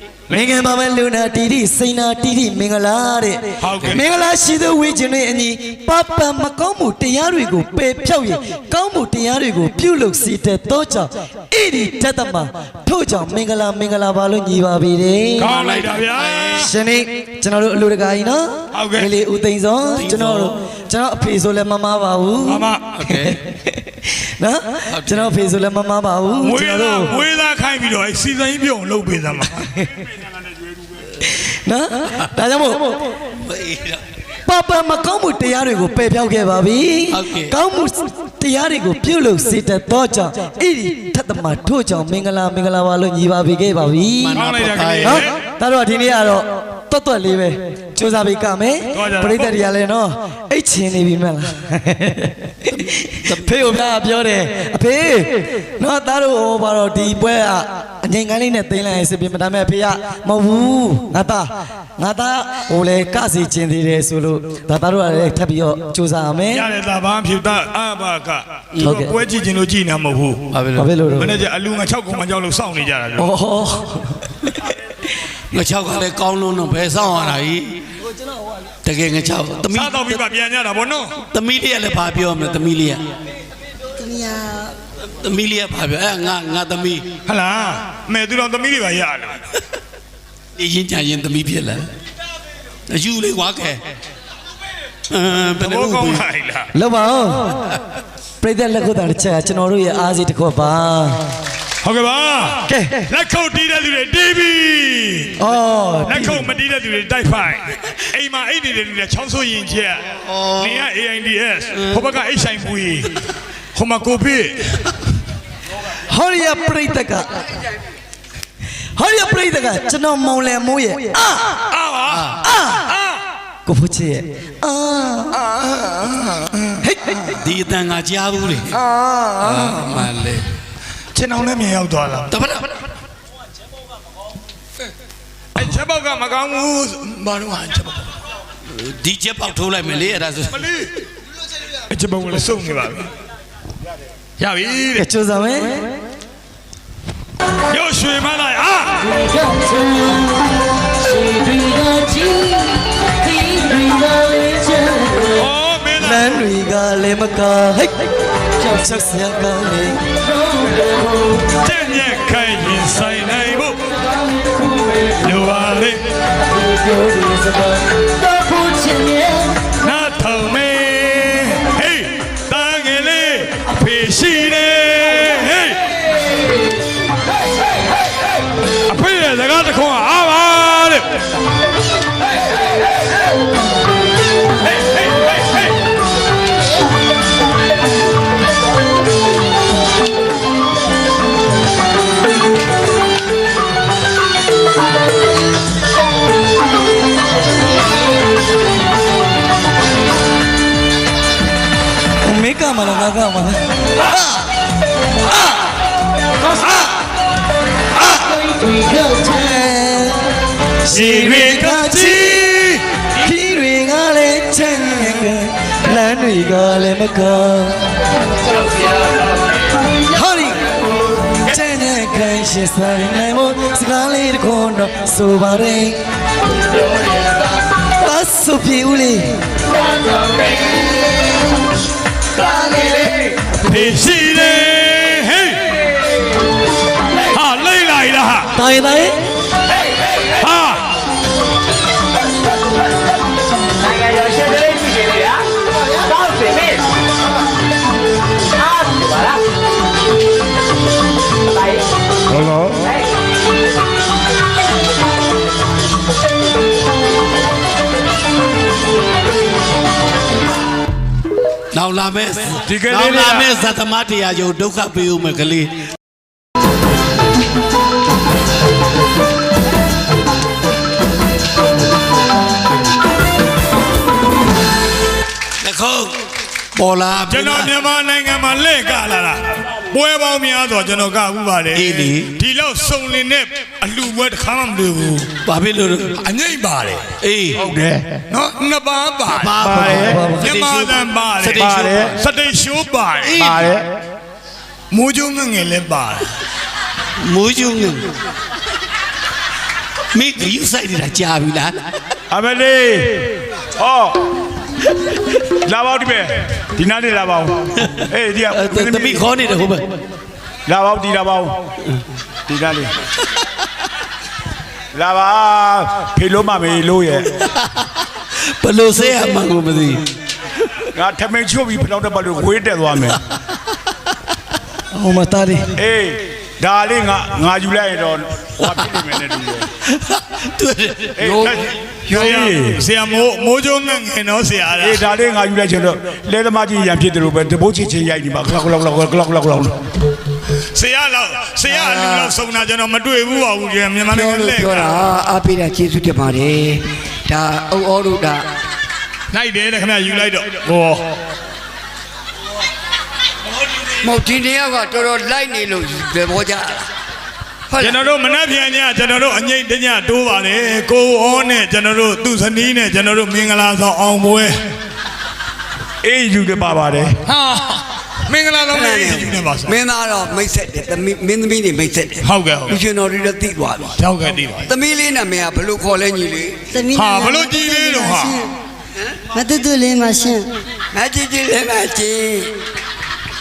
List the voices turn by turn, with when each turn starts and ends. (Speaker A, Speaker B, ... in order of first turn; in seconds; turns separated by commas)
Speaker A: 0.3-0.6, Speaker B: 0.3-15.5, Speaker A: 3.6-4.0, Speaker A: 15.4-16.7, Speaker C: 15.6-16.6, Speaker B: 16.5-27.2, Speaker A: 18.7-19.1, Speaker C: 19.9-20.6, Speaker A: 22.5-23.1, Speaker C: 23.0-23.4, Speaker C: 24.9-25.4, Speaker A: 26.4-29.7, Speaker B: 31.2-33.2, Speaker C: 33.3-34.0, Speaker B: 34.5-44.4, Speaker C: 37.1-37.5, Speaker C: 44.2-45.1, Speaker A: 44.3-45.3, Speaker B: 45.0-66.7, Speaker A: 48.9-49.5, Speaker C: 52.7-53.9, Speaker A: 66.5-70.5, Speaker B: 68.8-69.2, Speaker C: 70.5-70.9, Speaker B: 70.8-71.3, Speaker A: 71.2-73.3, Speaker B: 73.2-74.7, Speaker C: 75.5-77.8, Speaker C: 78.8-80.2, Speaker A: 79.7-81.1, Speaker C: 81.2-83.1, Speaker D: 84.0-84.7, Speaker C: 85.2-87.1, Speaker A: 87.3-89.6, Speaker C: 90.5-91.9, Speaker C: 92.9-93.8, Speaker C: 95.1-96.2, Speaker A: 95.6-96.7, Speaker B: 96.7-97.7, Speaker B: 98.4-101.2, Speaker A: 101.8-105.3, Speaker B: 102.7-103.1, Speaker B: 105.4-106.5, Speaker A: 106.0-113.2, Speaker C: 110.3-110.7, Speaker A: 113.7-114.7, Speaker B: 116.1-117.5, Speaker B: 119.0-121.6, Speaker A: 121.7-122.4, Speaker B: 122.5-122.8, Speaker A: 122.9-123.2, Speaker B: 123.7-125.4, Speaker A: 125.3-126.8, Speaker B: 126.8-127.4, Speaker C: 127.4-128.8, Speaker A: 128.7-130.1, Speaker C: 129.4-130.4, Speaker A: 131.1-132.3, Speaker C: 132.3-132.8, Speaker A: 135.6-138.1, Speaker C: 138.7-140.6, Speaker A: 140.5-140.8, Speaker A: 141.9-143.1, Speaker A: 144.4-145.0, Speaker B: 144.9-145.9, Speaker A: 147.7-149.1, Speaker B: 149.2-155.3, Speaker A: 155.3-156.4, Speaker B: 156.0-160.2, Speaker A: 161.5-163.8, Speaker A: 165.2-166.0, Speaker B: 166.7-169.6, Speaker A: 169.7-175.9, Speaker A: 178.9-181.1, Speaker B: 202.2-203.6, Speaker B: 208.5-212.4, Speaker A: 210.9-212.8, Speaker B: 213.2-217.8, Speaker B: 220.1-220.6, Speaker B: 221.4-226.0, Speaker B: 227.9-229.4, Speaker A: 233.6-235.9, Speaker A: 237.3-238.5, Speaker B: 238.5-239.2, Speaker A: 240.2-240.8, Speaker D: 244.2-245.2, Speaker D: 246.1-246.7, Speaker E: 252.3-252.8, Speaker C: 261.7-265.8, Speaker E: 262.7-263.5, Speaker C: 275.6-277.8, Speaker A: 277.3-285.3, Speaker C: 281.7-282.3, Speaker C: 285.4-286.2, Speaker A: 286.2-287.0, Speaker C: 287.2-287.7, Speaker E: 287.6-288.2, Speaker A: 288.3-289.7, Speaker C: 289.3-292.1, Speaker E: 289.6-290.3, Speaker B: 289.7-290.5, Speaker A: 290.4-293.5, Speaker E: 291.6-292.2, Speaker C: 293.2-293.7, Speaker E: 293.4-293.8, Speaker A: 294.9-296.3, Speaker C: 297.2-298.1, Speaker C: 300.1-301.9, Speaker E: 302.3-304.2, Speaker E: 305.6-309.3, Speaker C: 307.9-310.0, Speaker E: 310.7-311.6, Speaker E: 312.5-312.9, Speaker E: 314.9-317.3, Speaker C: 318.3-320.1, Speaker E: 320.9-323.1, Speaker B: 324.9-325.8, Speaker E: 325.8-329.7, Speaker C: 328.6-329.0, Speaker C: 329.8-331.2, Speaker E: 331.2-332.8, Speaker F: 331.2-332.5, Speaker A: 332.1-335.1, Speaker E: 334.8-339.8, Speaker A: 340.7-345.0, Speaker F: 341.7-342.3, Speaker F: 344.1-348.5, Speaker A: 349.3-351.0, Speaker F: 354.0-356.9, Speaker F: 357.7-358.0, Speaker A: 357.8-364.6, Speaker E: 366.0-367.1, Speaker A: 367.2-369.8, Speaker F: 368.7-373.9, Speaker A: 372.2-372.8, Speaker A: 374.0-374.7, Speaker F: 374.6-376.6, Speaker D: 376.7-378.4, Speaker A: 376.9-378.4, Speaker D: 379.3-380.5, Speaker F: 380.9-382.5